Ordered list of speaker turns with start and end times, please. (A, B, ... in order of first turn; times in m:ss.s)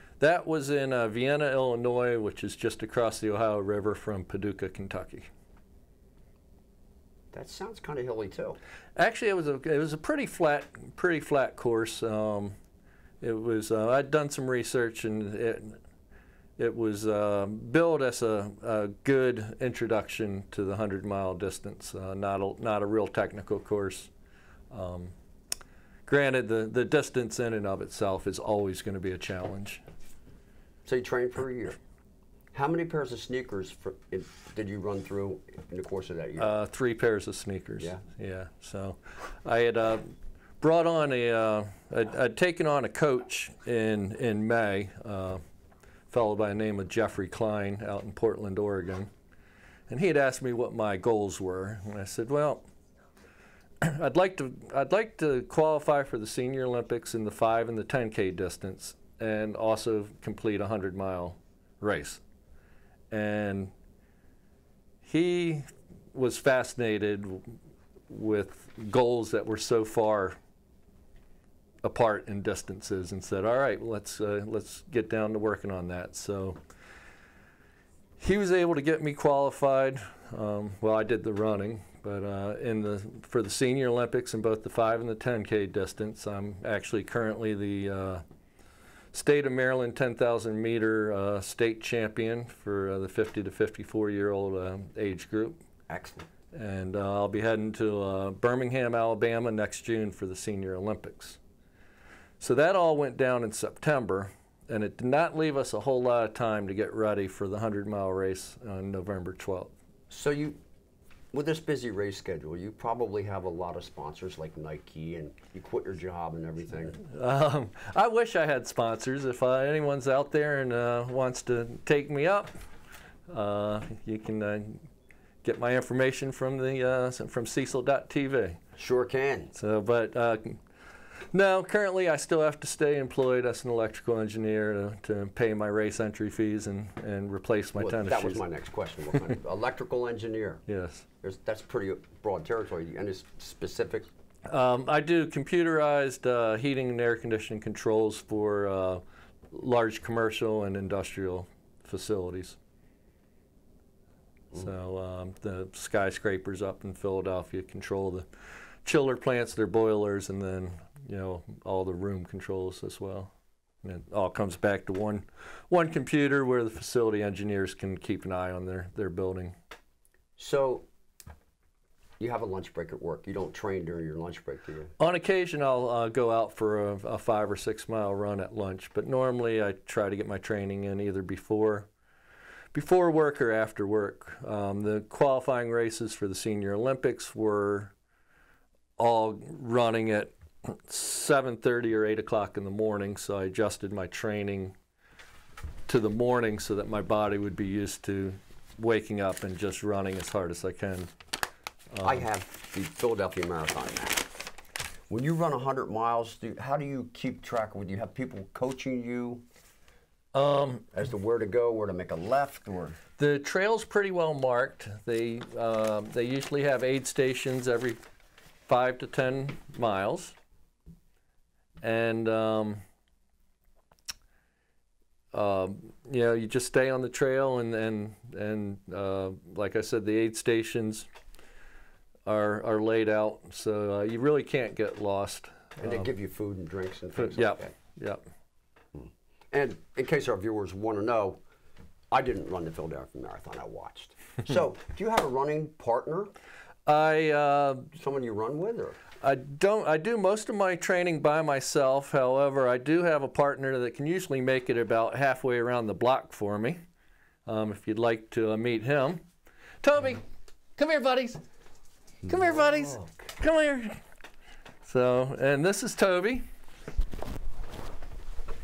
0:00.2-0:05.3 A
0:07.3-0:08.6 B
0:09.0-0:12.5 A
0:13.2-0:15.8 A
0:16.6-0:24.1 A
0:24.7-0:25.1 A
0:26.0-0:29.8 A
0:30.8-0:31.8 B
0:32.5-0:36.5 B
0:36.4-0:45.4 A
0:46.1-0:49.1 A
0:49.9-0:52.6 A
0:53.8-1:02.2 A
1:03.1-1:03.7 A
1:05.0-1:07.6 A
1:08.1-1:10.4 A
1:11.8-1:16.6 A
1:18.2-1:28.2 A
1:29.1-1:35.6 A
1:35.9-1:36.3 B
1:36.5-1:41.4 A
1:42.4-1:49.7 A
1:50.1-1:50.6 B
1:51.3-1:57.0 B
1:56.9-2:02.5 A
2:03.3-2:04.9 A
2:05.4-2:08.6 A
2:08.8-2:09.5 B
2:09.6-2:10.6 A
2:11.3-2:18.4 A
2:17.8-2:20.6 B
2:20.7-2:21.0 A
2:21.2-2:24.1 B
2:24.5-2:32.6 A
2:34.5-2:38.3 A
2:38.8-2:43.3 A
2:43.8-2:49.5 A
2:50.4-2:50.8 B
2:52.2-2:54.9 B
2:55.0-3:01.9 A
3:02.7-3:07.9 A
3:09.0-3:14.8 A
3:15.9-3:21.1 A
3:21.9-3:22.2 A
3:22.0-3:24.4 B
3:25.1-3:29.4 B
3:30.3-3:30.9 A
3:30.9-3:33.0 B
3:33.2-3:38.0 A
3:38.7-3:40.3 A
3:41.8-3:42.8 A
3:45.3-3:51.1 A
3:52.2-3:56.1 A
3:55.8-3:57.8 B
3:57.2-3:58.2 A
3:58.9-4:01.4 B
4:02.1-4:06.3 B
4:06.8-4:07.9 A
4:07.9-4:09.0 B
4:09.2-4:16.8 A
4:17.4-4:19.2 A
4:19.8-4:20.2 A
4:20.8-4:21.4 A
4:22.2-4:23.3 B
4:22.2-4:24.0 A
4:24.8-4:26.4 A